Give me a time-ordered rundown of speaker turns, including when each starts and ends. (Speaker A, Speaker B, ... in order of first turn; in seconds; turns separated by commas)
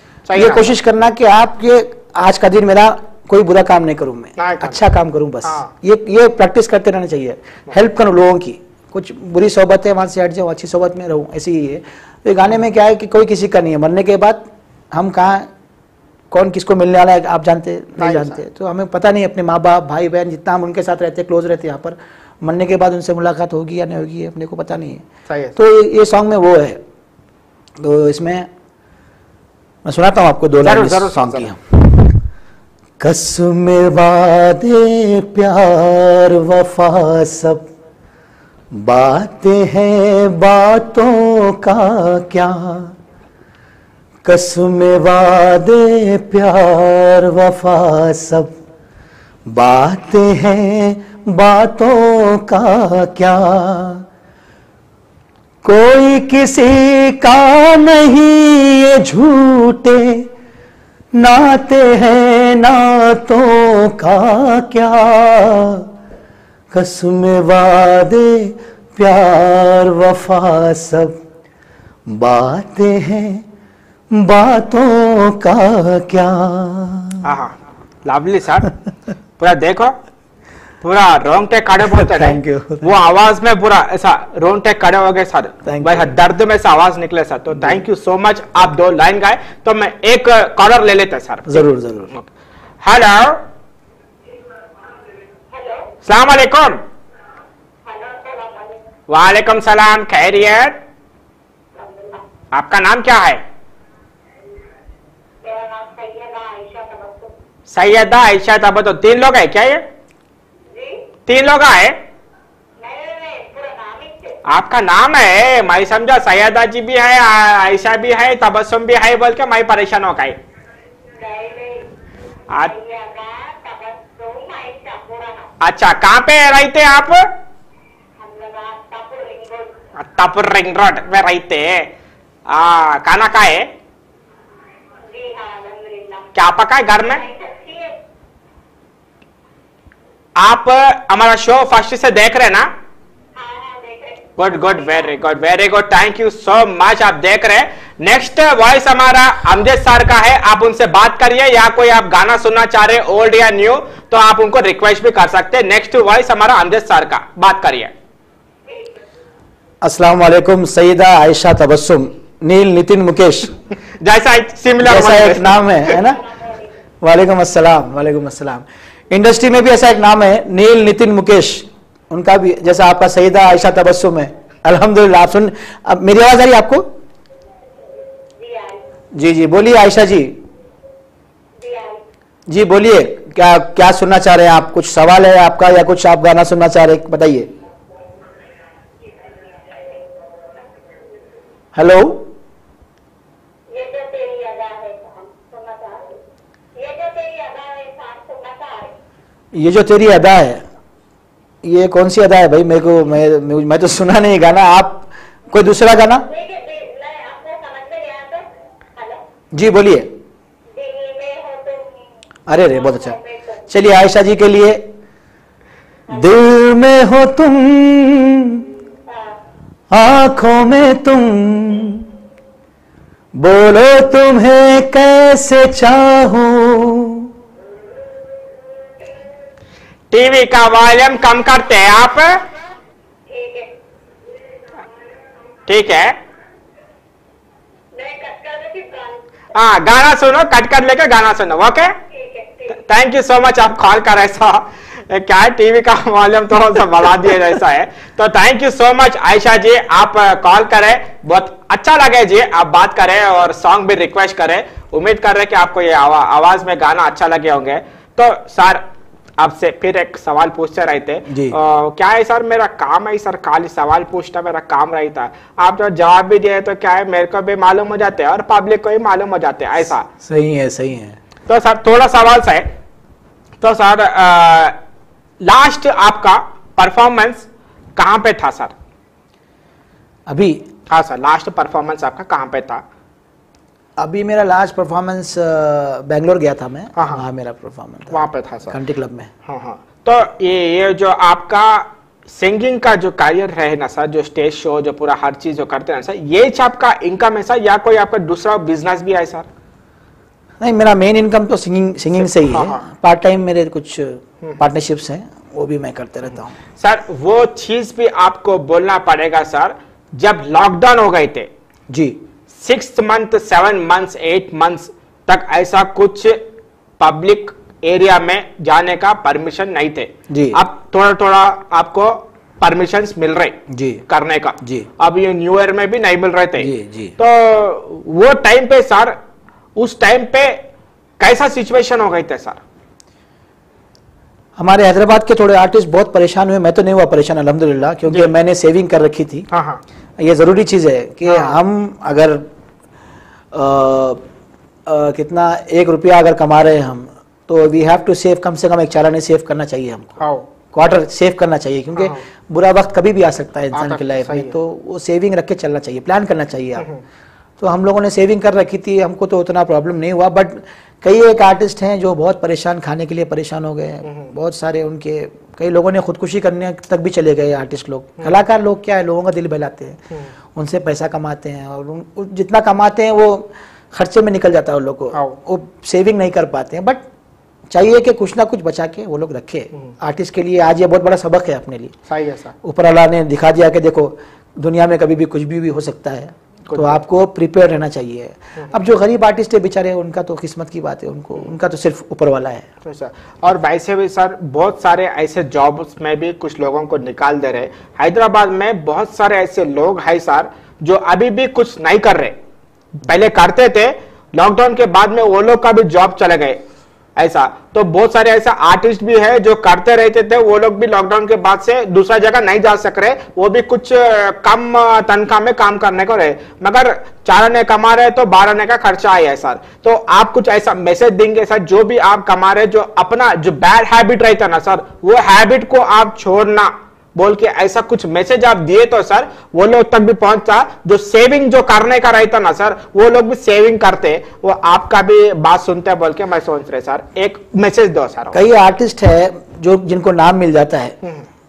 Speaker A: 0.3-0.7, Speaker B: 0.3-15.5, Speaker A: 4.4-4.8, Speaker A: 5.4-5.7, Speaker B: 16.3-25.0, Speaker A: 18.0-18.4, Speaker A: 25.3-25.6, Speaker B: 25.6-26.8, Speaker B: 27.8-28.5, Speaker B: 29.8-32.2, Speaker A: 30.6-31.5, Speaker B: 33.0-37.6, Speaker B: 38.7-42.9, Speaker B: 44.2-48.5, Speaker B: 49.5-54.0, Speaker B: 55.6-60.3, Speaker B: 61.1-65.9, Speaker B: 66.7-71.2, Speaker B: 72.0-73.4, Speaker B: 74.1-77.2, Speaker A: 77.2-77.5, Speaker A: 78.0-78.7, Speaker A: 79.4-80.0, Speaker A: 80.8-91.6, Speaker B: 81.8-82.8, Speaker B: 85.6-86.1, Speaker B: 91.5-92.1, Speaker A: 92.8-93.4, Speaker C: 95.5-95.9, Speaker A: 96.0-96.8, Speaker C: 97.8-98.8, Speaker A: 99.1-100.8, Speaker C: 101.7-102.2, Speaker A: 102.5-103.4, Speaker C: 105.4-107.3, Speaker A: 107.7-109.8, Speaker C: 110.7-111.0, Speaker A: 111.3-112.0, Speaker C: 112.8-114.4, Speaker A: 114.5-120.4, Speaker C: 121.1-121.9, Speaker C: 122.5-125.5, Speaker A: 125.6-127.3, Speaker C: 128.2-129.8, Speaker A: 129.9-131.9, Speaker A: 132.5-133.7, Speaker C: 135.0-136.3, Speaker A: 136.3-137.2, Speaker C: 137.0-138.0, Speaker A: 140.4-142.7, Speaker C: 143.3-145.1, Speaker A: 144.4-157.9, Speaker C: 158.7-158.9, Speaker B: 159.8-163.6, Speaker A: 164.0-165.9, Speaker B: 164.8-166.2, Speaker C: 166.0-166.7, Speaker B: 167.0-176.9, Speaker C: 178.4-178.8, Speaker B: 179.1-180.4, Speaker C: 181.6-182.0, Speaker B: 182.5-187.5, Speaker C: 189.1-190.8, Speaker B: 191.7-192.3, Speaker C: 193.7-196.2, Speaker C: 196.7-198.9, Speaker B: 199.5-200.6, Speaker B: 201.6-206.3, Speaker C: 206.3-209.2, Speaker B: 209.5-210.1, Speaker C: 210.7-212.0, Speaker B: 212.5-213.2, Speaker C: 212.8-213.6, Speaker B: 213.7-214.8, Speaker B: 216.1-218.7, Speaker C: 219.1-219.3, Speaker B: 219.9-222.1, Speaker B: 223.3-227.3, Speaker A: 230.1-232.4, Speaker C: 233.3-233.7, Speaker C: 234.7-235.2, Speaker A: 235.7-236.2, Speaker C: 237.9-239.2, Speaker A: 239.5-241.9, Speaker C: 242.1-242.8, Speaker A: 242.7-258.8, Speaker A: 259.4-270.1, Speaker B: 261.3-261.6, Speaker B: 270.2-271.2, Speaker A: 271.5-272.7, Speaker A: 273.6-274.8, Speaker A: 275.4-278.7, Speaker B: 280.3-280.6, Speaker A: 280.9-282.8, Speaker B: 284.0-289.3, Speaker A: 286.9-287.2, Speaker A: 288.1-288.8, Speaker A: 289.4-299.5, Speaker B: 300.6-306.5, Speaker A: 302.2-302.9, Speaker A: 306.8-311.5, Speaker B: 311.9-312.2, Speaker A: 312.5-316.4, Speaker A: 317.0-329.2, Speaker B: 320.3-320.6, Speaker B: 323.7-324.0, Speaker B: 324.6-324.9, Speaker B: 326.6-327.1, Speaker A: 329.8-330.6, Speaker A: 331.2-332.6, Speaker B: 334.6-339.5, Speaker A: 339.5-339.8, Speaker B: 340.2-342.5, Speaker A: 341.2-341.6, Speaker B: 343.5-344.2, Speaker B: 344.9-350.2, Speaker A: 350.2-350.4, Speaker B: 350.7-356.9, Speaker A: 351.9-352.2, Speaker A: 353.7-354.5, Speaker A: 356.8-357.0, Speaker B: 357.6-370.0, Speaker A: 364.0-364.3, Speaker B: 370.5-377.0, Speaker A: 375.1-375.4, Speaker B: 377.7-381.9, Speaker A: 382.1-382.5, Speaker B: 382.6-392.6, Speaker A: 386.7-387.0, Speaker A: 392.8-402.4, Speaker A: 403.0-406.6, Speaker A: 407.2-438.4, Speaker B: 438.3-440.9